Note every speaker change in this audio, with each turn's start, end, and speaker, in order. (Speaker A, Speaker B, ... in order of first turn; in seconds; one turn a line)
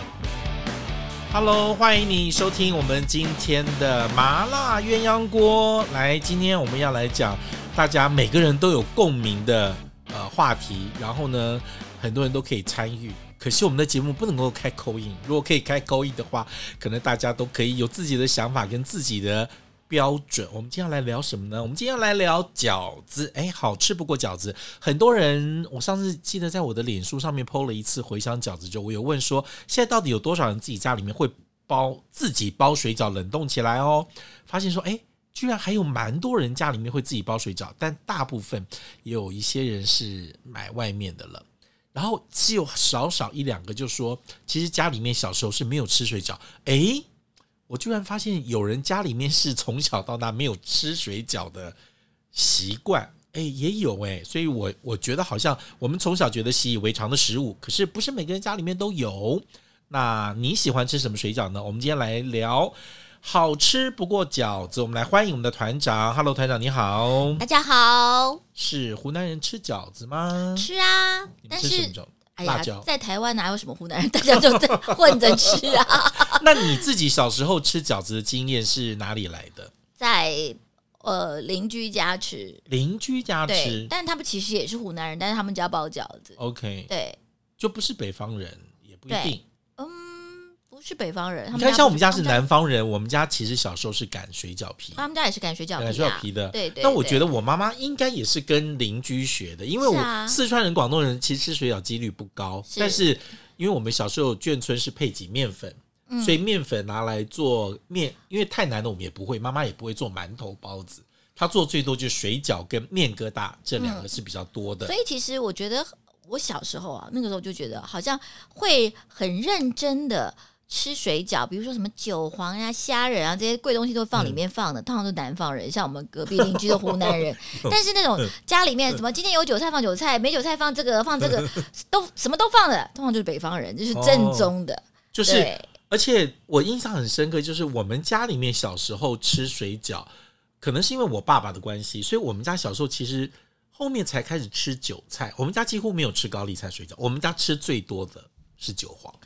Speaker A: 1.3-47.0
Speaker A: 47.7-51.8
Speaker A: 52.3-67.4
Speaker B: 67.4-68.4
Speaker A: 68.5-70.7
Speaker B: 70.5-76.8
Speaker A: 71.5-72.9
Speaker A: 74.4-79.7
Speaker B: 80.0-82.6
Speaker A: 82.7-83.9
Speaker B: 83.5-86.4
Speaker A: 86.4-86.9
Speaker B: 86.9-87.2
Speaker A: 87.6-89.4
Speaker B: 89.1-92.4
Speaker A: 91.5-95.0
Speaker B: 95.0-97.3
Speaker A: 95.8-114.9
Speaker B: 99.8-100.4
Speaker B: 102.7-103.1
Speaker B: 106.1-106.4
Speaker B: 113.8-114.1
Speaker B: 114.8-135.7
Speaker A: 126.3-128.3
Speaker A: 131.2-131.6
Speaker A: 133.9-134.5
Speaker A: 135.1-140.1
Speaker A: 140.6-149.2